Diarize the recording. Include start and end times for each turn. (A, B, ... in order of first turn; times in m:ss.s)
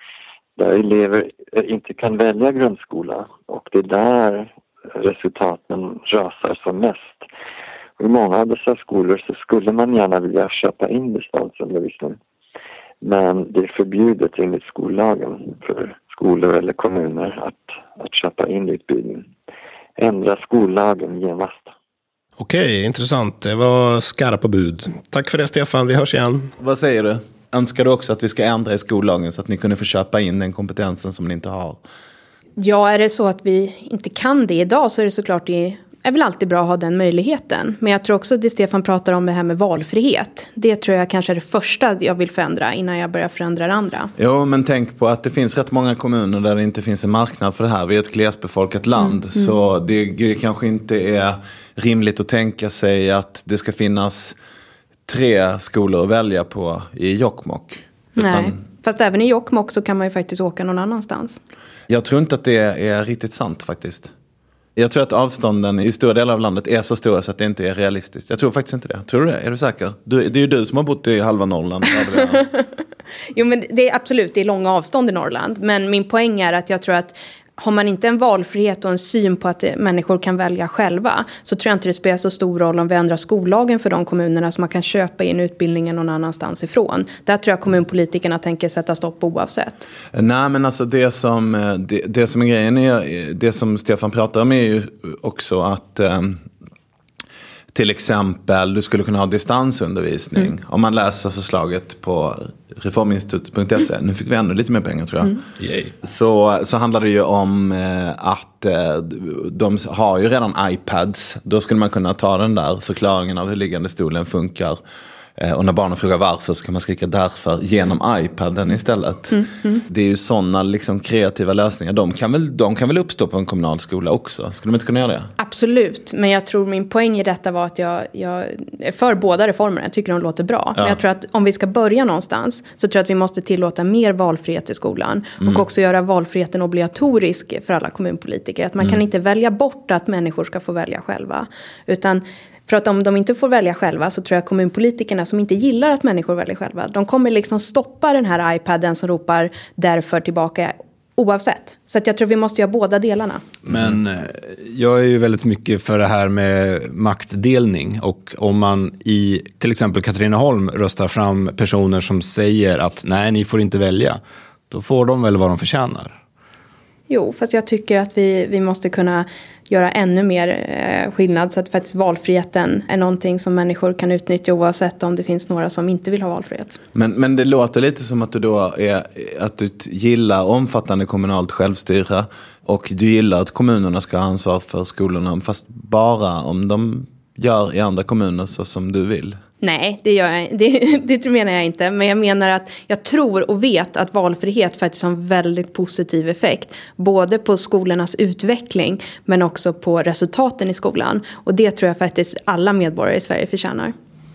0:00.6-0:07.2 A
0:08.0-0:12.2 A
0:13.0-0:19.3 A
0:20.0-0:21.7 A
0:22.4-0:26.5 B
0:24.1-0:25.4 C
0:26.6-0:31.8 D
0:32.6-0:44.1 E
0:44.2-0:54.4 D
0:55.1-0:58.6 D
0:58.2-1:01.4 E
1:01.9-1:04.1 D
1:04.8-1:12.4 D
1:12.2-1:12.6 E
1:13.3-1:29.9 E
1:30.1-1:36.4 D
1:37.7-1:45.4 D
1:45.6-1:45.9 C
1:46.0-1:54.8 D
1:55.4-2:05.3 D
1:59.3-1:59.8 E
2:05.4-2:33.4 E
2:33.7-2:44.2 C
2:44.7-2:46.2 C
2:47.1-2:56.8 E
2:57.0-3:09.4 D
3:09.6-3:23.9 E